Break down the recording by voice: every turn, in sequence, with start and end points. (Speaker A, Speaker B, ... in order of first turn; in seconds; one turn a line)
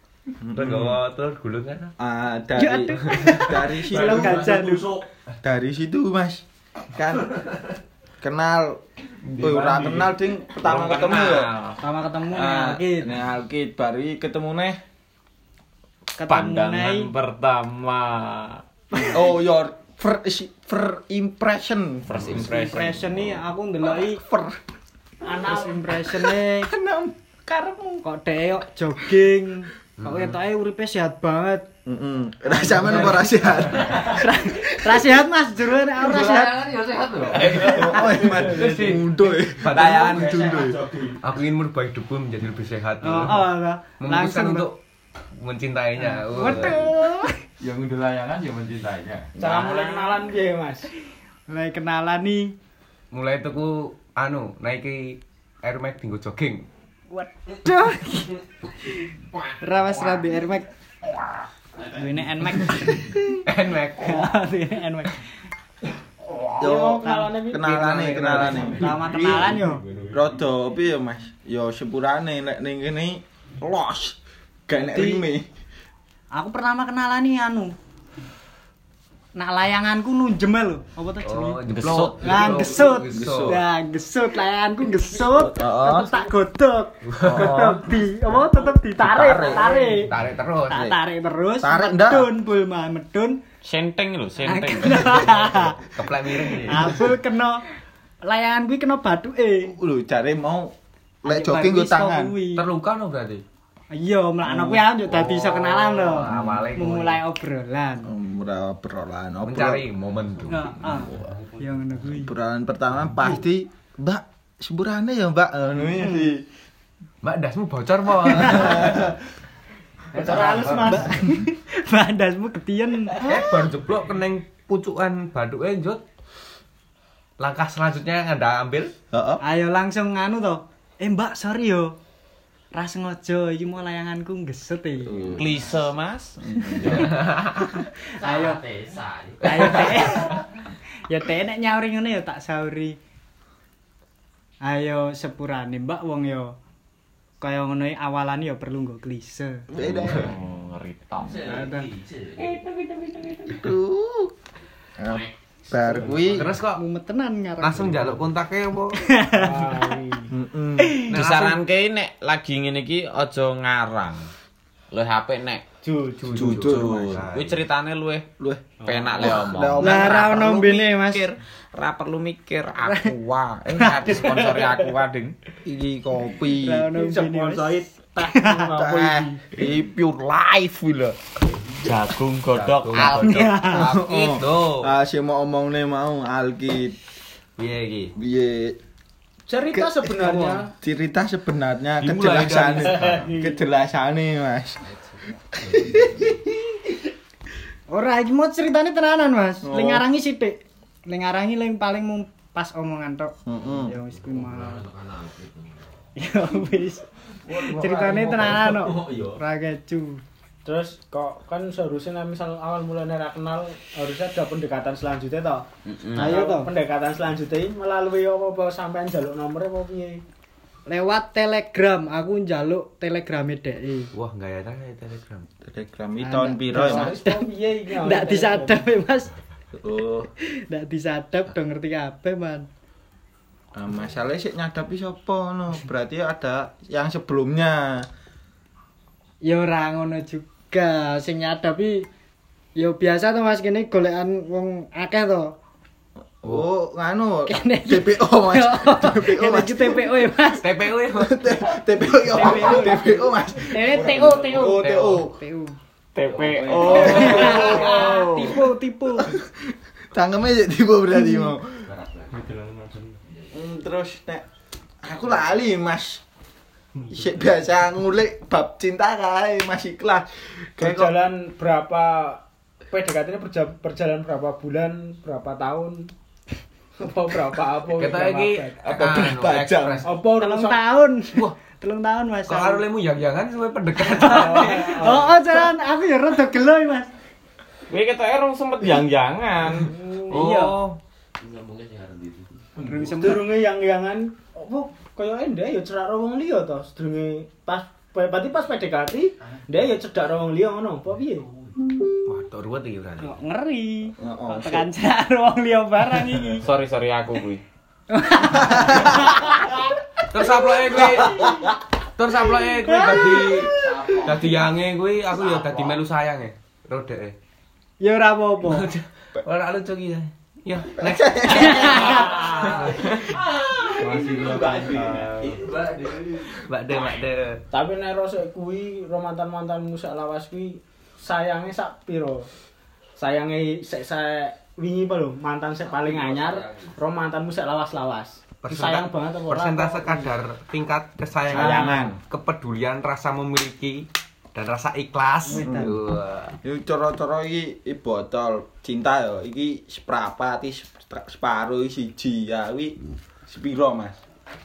Speaker A: 0.4-1.0
Speaker B: 0.6-1.9
Speaker A: 2.0-4.6
Speaker C: 2.6-5.0
Speaker B: 3.1-3.6
Speaker A: 5.4-7.5
Speaker A: 8.2-8.8
Speaker B: 9.2-10.1
Speaker A: 9.4-11.5
Speaker D: 10.6-11.8
Speaker C: 11.8-13.1
Speaker A: 12.3-14.8
Speaker C: 16.2-17.1
Speaker D: 16.3-18.6
Speaker A: 19.0-22.6
Speaker D: 22.1-23.0
Speaker C: 22.4-24.2
Speaker A: 23.9-24.6
Speaker E: 25.2-25.8
Speaker C: 25.4-26.7
Speaker A: 26.1-28.0
Speaker C: 28.0-31.7
Speaker B: 30.0-30.3
Speaker A: 31.9-35.0
Speaker C: 33.8-36.8
Speaker B: 37.0-43.5
Speaker A: 37.4-41.0
Speaker F: 40.6-41.1
Speaker C: 43.0-44.7
Speaker B: 44.0-44.8
Speaker B: 45.4-46.8
Speaker C: 46.1-47.4
Speaker F: 47.8-49.2
Speaker E: 49.4-50.9
Speaker D: 49.4-50.1
Speaker C: 51.5-52.5
Speaker B: 53.1-56.7
Speaker C: 57.1-60.7
Speaker C: 61.9-63.4
Speaker B: 63.4-64.3
Speaker C: 64.0-65.2
Speaker E: 66.6-67.8
Speaker A: 66.6-74.2
Speaker C: 67.0-67.3
Speaker B: 67.6-69.0
Speaker C: 68.6-69.8
Speaker A: 74.7-75.5
Speaker C: 74.7-75.2
Speaker C: 76.3-77.7
Speaker C: 79.3-81.6
Speaker B: 81.2-83.6
Speaker D: 81.7-82.5
Speaker C: 82.2-90.1
Speaker A: 83.1-83.6
Speaker A: 85.3-86.1
Speaker B: 87.0-87.6
Speaker A: 87.2-87.8
Speaker D: 87.3-87.8
Speaker A: 89.0-89.8
Speaker B: 89.9-90.9
Speaker C: 90.7-93.4
Speaker A: 90.7-91.0
Speaker A: 91.6-92.3
Speaker D: 93.6-95.4
Speaker C: 94.4-95.8
Speaker B: 95.8-97.1
Speaker C: 96.6-97.6
Speaker C: 98.2-99.8
Speaker A: 99.7-100.7
Speaker A: 101.2-102.4
Speaker C: 101.2-102.7
Speaker B: 102.5-103.4
Speaker C: 103.9-108.1
Speaker A: 104.5-104.8
Speaker B: 105.7-107.2
Speaker A: 106.2-106.7
Speaker A: 108.0-109.9
Speaker B: 109.4-110.7
Speaker C: 110.5-112.3
Speaker A: 110.8-111.4
Speaker A: 112.1-116.5
Speaker B: 117.2-119.1
Speaker A: 118.4-119.1
Speaker B: 120.1-121.1
Speaker C: 120.2-123.2
Speaker A: 120.3-121.4
Speaker B: 123.2-126.0
Speaker A: 123.2-123.5
Speaker B: 127.4-128.9
Speaker A: 129.1-129.4
Speaker C: 129.4-132.0
Speaker C: 132.7-135.2
Speaker A: 135.0-135.7
Speaker D: 135.3-137.3
Speaker A: 136.4-137.1
Speaker B: 136.9-137.6
Speaker C: 137.6-138.6
Speaker D: 138.2-140.1
Speaker C: 139.4-140.4
Speaker B: 139.5-139.8
Speaker C: 141.1-143.0
Speaker C: 144.6-146.6
Speaker C: 147.4-149.7
Speaker A: 149.7-150.3
Speaker B: 149.8-150.2
Speaker D: 149.8-153.6
Speaker C: 151.4-151.9
Speaker A: 153.5-154.3
Speaker A: 155.0-156.6
Speaker E: 155.8-156.3
Speaker B: 156.3-156.8
Speaker C: 156.7-158.1
Speaker B: 157.6-159.0
Speaker C: 159.0-159.9
Speaker E: 159.3-160.3
Speaker A: 160.3-161.0
Speaker C: 160.8-161.1
Speaker B: 161.1-161.6
Speaker D: 161.1-164.3
Speaker D: 164.9-165.6
Speaker E: 165.8-166.7
Speaker B: 166.2-167.7
Speaker A: 166.3-167.2
Speaker D: 166.4-168.3
Speaker A: 168.4-170.5
Speaker E: 168.8-169.3
Speaker D: 168.8-175.3
Speaker C: 169.8-171.3
Speaker C: 172.8-173.1
Speaker C: 173.8-174.5
Speaker A: 175.7-176.9
Speaker C: 176.5-178.8
Speaker E: 176.9-179.4
Speaker A: 178.8-181.2
Speaker D: 181.8-183.7
Speaker B: 182.5-184.9
Speaker C: 183.0-183.9
Speaker A: 183.7-187.0
Speaker B: 187.6-188.1
Speaker A: 188.2-188.8
Speaker E: 189.5-190.7
Speaker A: 189.7-190.2
Speaker C: 190.2-190.6
Speaker A: 190.8-197.0
Speaker B: 192.0-193.3
Speaker E: 192.8-193.6
Speaker C: 197.9-204.9
Speaker A: 199.6-200.0
Speaker A: 203.5-204.0
Speaker D: 205.0-205.5
Speaker C: 206.2-210.2
Speaker E: 207.5-208.3
Speaker A: 208.0-208.8
Speaker E: 210.7-215.6
Speaker D: 215.9-216.4
Speaker C: 216.2-216.7
Speaker E: 216.2-220.2
Speaker C: 220.9-224.1
Speaker B: 224.1-225.5
Speaker A: 225.6-227.1
Speaker C: 226.2-229.3
Speaker E: 226.7-228.8
Speaker A: 229.8-230.3
Speaker C: 230.5-232.7
Speaker A: 233.8-238.1
Speaker C: 239.4-242.1
Speaker C: 242.8-245.6
Speaker A: 246.4-250.3
Speaker C: 247.5-250.7
Speaker B: 250.6-251.8
Speaker A: 251.1-255.4
Speaker C: 252.3-255.8
Speaker B: 254.6-255.3
Speaker D: 256.1-258.6
Speaker A: 256.4-258.3
Speaker B: 256.5-257.5
Speaker C: 256.9-259.3
Speaker A: 259.2-261.9
Speaker C: 261.2-261.5
Speaker F: 262.1-263.2
Speaker A: 263.5-264.4
Speaker A: 265.0-266.2
Speaker A: 267.1-271.2
Speaker E: 270.8-276.1
Speaker E: 277.0-278.8
Speaker B: 277.9-280.1
Speaker A: 278.8-280.1
Speaker E: 280.0-280.8
Speaker C: 280.4-282.8
Speaker B: 282.5-285.2
Speaker C: 284.0-287.1
Speaker E: 284.2-285.4
Speaker D: 287.9-290.7
Speaker E: 289.8-290.3
Speaker C: 290.3-290.8
Speaker B: 290.3-291.0
Speaker D: 291.4-292.5
Speaker C: 292.8-293.5
Speaker E: 292.8-301.5
Speaker B: 302.3-303.4
Speaker C: 303.2-306.6
Speaker A: 304.2-304.9
Speaker D: 306.6-307.6
Speaker C: 308.1-309.8
Speaker A: 308.6-309.4
Speaker B: 310.3-311.6
Speaker A: 310.9-311.8
Speaker B: 312.2-317.4
Speaker C: 312.8-313.7
Speaker A: 313.4-314.4
Speaker C: 318.0-318.9
Speaker B: 318.7-323.9
Speaker A: 321.0-326.5
Speaker C: 321.5-322.5
Speaker E: 324.0-325.3
Speaker B: 326.3-327.6
Speaker E: 327.7-332.5
Speaker E: 333.2-340.3
Speaker B: 336.2-336.5
Speaker B: 338.6-346.6
Speaker A: 341.5-342.2
Speaker E: 341.5-342.1
Speaker C: 345.5-346.0
Speaker A: 345.6-346.0
Speaker A: 346.6-354.2